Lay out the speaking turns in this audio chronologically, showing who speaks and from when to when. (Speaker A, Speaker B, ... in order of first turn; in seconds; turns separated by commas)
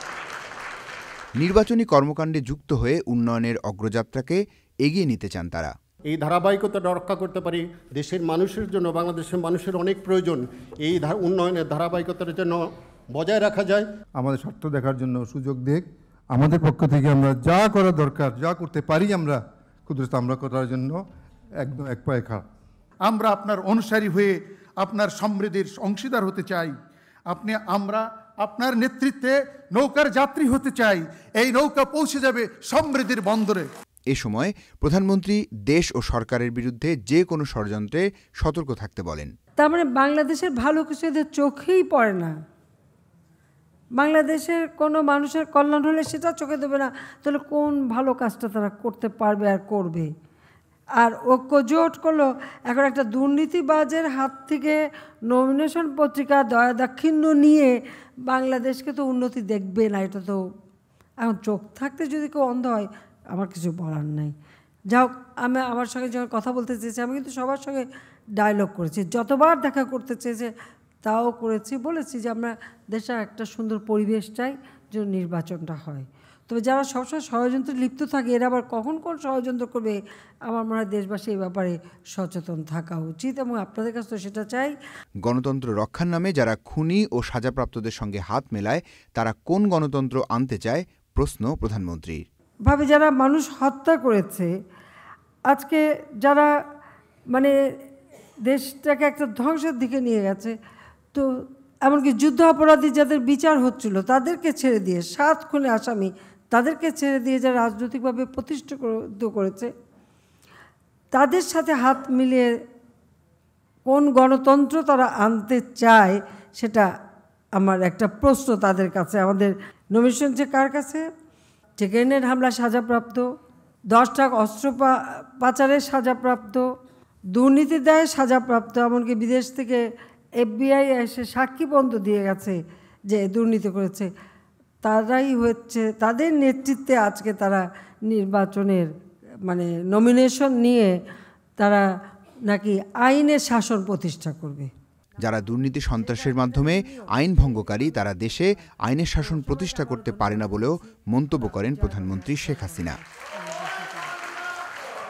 Speaker A: 1.4-5.7, Speaker B: 6.1-12.6, Speaker B: 13.1-13.9, Speaker C: 14.2-21.0, Speaker C: 21.6-22.4, Speaker D: 23.1-26.7, Speaker D: 27.3-33.7, Speaker A: 34.1-39.3, Speaker E: 39.6-42.3, Speaker E: 44.0-50.1, Speaker E: 51.0-57.7, Speaker E: 58.3-60.4, Speaker E: 61.2-64.3, Speaker E: 64.9-67.8, Speaker E: 68.4-70.5, Speaker E: 71.0-84.7, Speaker A: 85.2-92.2, Speaker E: 92.7-94.5, Speaker E: 95.5-96.5, Speaker E: 98.5-100.5, Speaker E: 101.8-109.7, Speaker E: 111.1-112.5, Speaker E: 113.9-116.8, Speaker E: 117.6-121.0, Speaker E: 121.8-123.2, Speaker E: 123.9-126.6, Speaker E: 127.3-129.8, Speaker E: 130.4-132.6, Speaker E: 133.1-134.1, Speaker E: 134.8-138.9, Speaker E: 139.5-140.9, Speaker E: 142.5-144.7, Speaker A: 145.2-153.0, Speaker E: 146.2-147.8, Speaker E: 149.3-150.7, Speaker E: 151.5-154.1